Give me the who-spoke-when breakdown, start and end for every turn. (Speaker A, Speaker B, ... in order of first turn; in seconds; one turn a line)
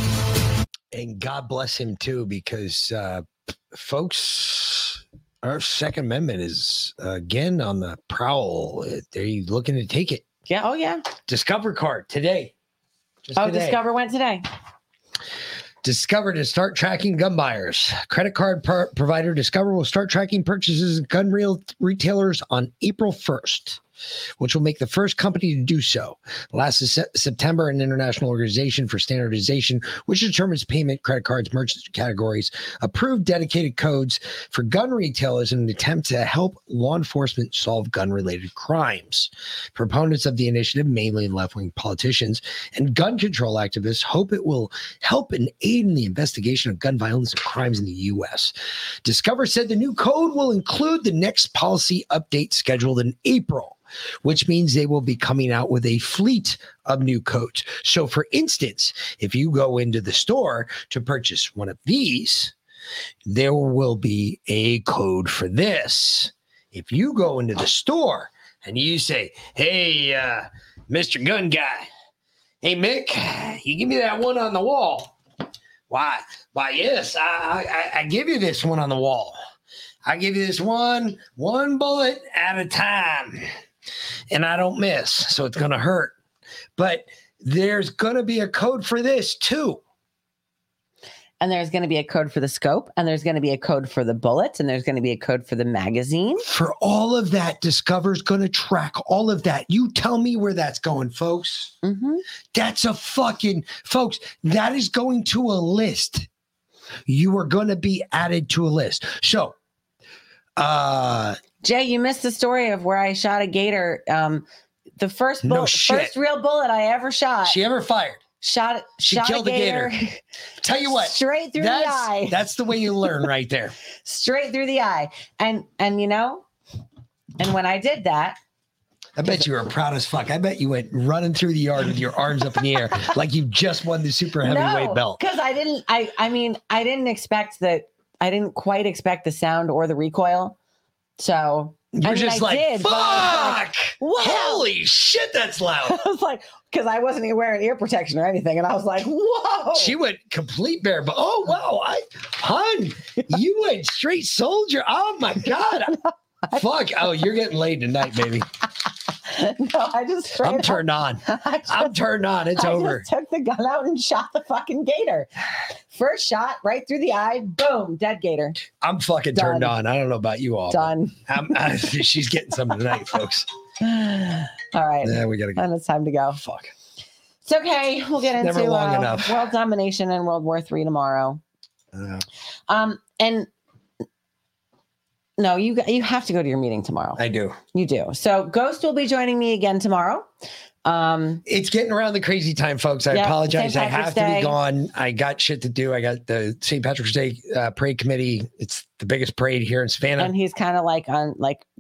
Speaker A: 0.9-10.2
Speaker B: 10.5-11.0
Speaker A: 11.3-12.5
Speaker A: 13.2-13.8
Speaker B: 13.4-14.4
Speaker A: 15.8-23.8
Speaker A: 24.4-48.5
Speaker A: 49.0-62.5
Speaker A: 63.3-71.9
Speaker A: 72.6-75.1
Speaker A: 75.9-79.4
Speaker A: 80.0-83.5
Speaker A: 84.3-86.2
Speaker A: 86.8-89.8
Speaker B: 91.4-96.5
Speaker A: 96.5-101.7
Speaker B: 101.8-102.2
Speaker A: 102.5-106.3
Speaker A: 107.1-109.5
Speaker A: 110.6-111.4
Speaker B: 111.6-114.5
Speaker B: 115.0-117.6
Speaker A: 115.4-116.1
Speaker A: 117.5-118.2
Speaker B: 118.4-120.2
Speaker A: 119.0-119.9
Speaker A: 120.6-123.7
Speaker B: 120.9-122.4
Speaker B: 124.0-126.5
Speaker B: 127.4-128.4
Speaker A: 129.2-135.2
Speaker B: 134.4-140.6
Speaker B: 141.2-144.7
Speaker A: 141.9-146.0
Speaker B: 145.9-149.9
Speaker A: 149.8-155.9
Speaker A: 156.6-158.5
Speaker B: 159.2-161.9
Speaker A: 160.4-163.1
Speaker B: 162.6-165.3
Speaker B: 165.9-168.6
Speaker A: 168.8-173.5
Speaker B: 169.3-169.7
Speaker B: 170.7-171.2
Speaker B: 173.8-176.4
Speaker A: 175.0-175.7
Speaker A: 176.3-176.7
Speaker B: 177.4-181.4
Speaker A: 178.4-179.5
Speaker A: 181.9-182.2
Speaker B: 182.7-183.5
Speaker B: 185.4-187.2
Speaker A: 187.2-187.6
Speaker B: 187.7-190.3
Speaker B: 190.8-191.4
Speaker A: 191.5-200.3
Speaker B: 193.1-194.5
Speaker B: 200.2-201.7